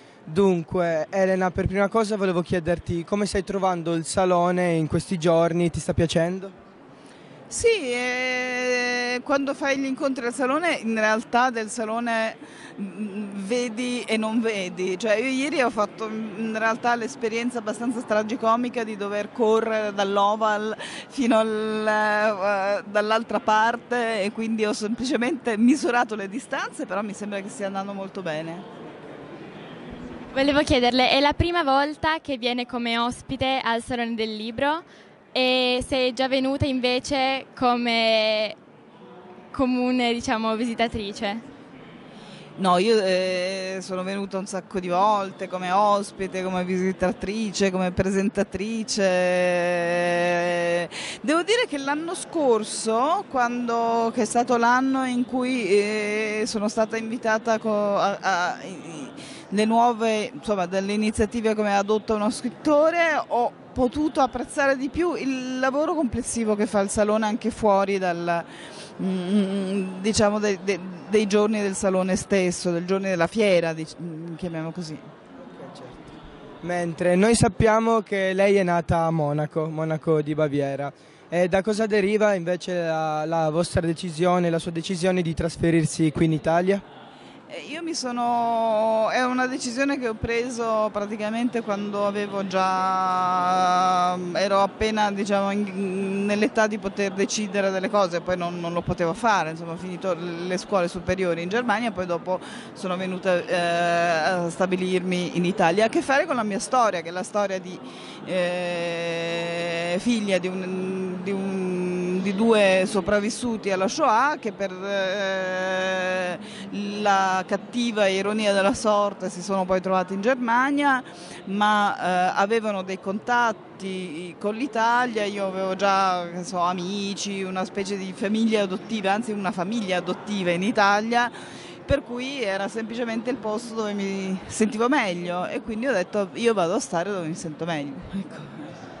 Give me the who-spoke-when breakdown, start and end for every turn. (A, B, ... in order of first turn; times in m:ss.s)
0:00.2-0:06.5 A
0:07.5-0:28.6 B
0:30.3-0:38.6 C
0:39.5-0:41.4 C
0:42.6-1:15.0 B
1:15.5-1:26.8 A
1:27.5-2:11.3 B
2:11.8-2:18.7 B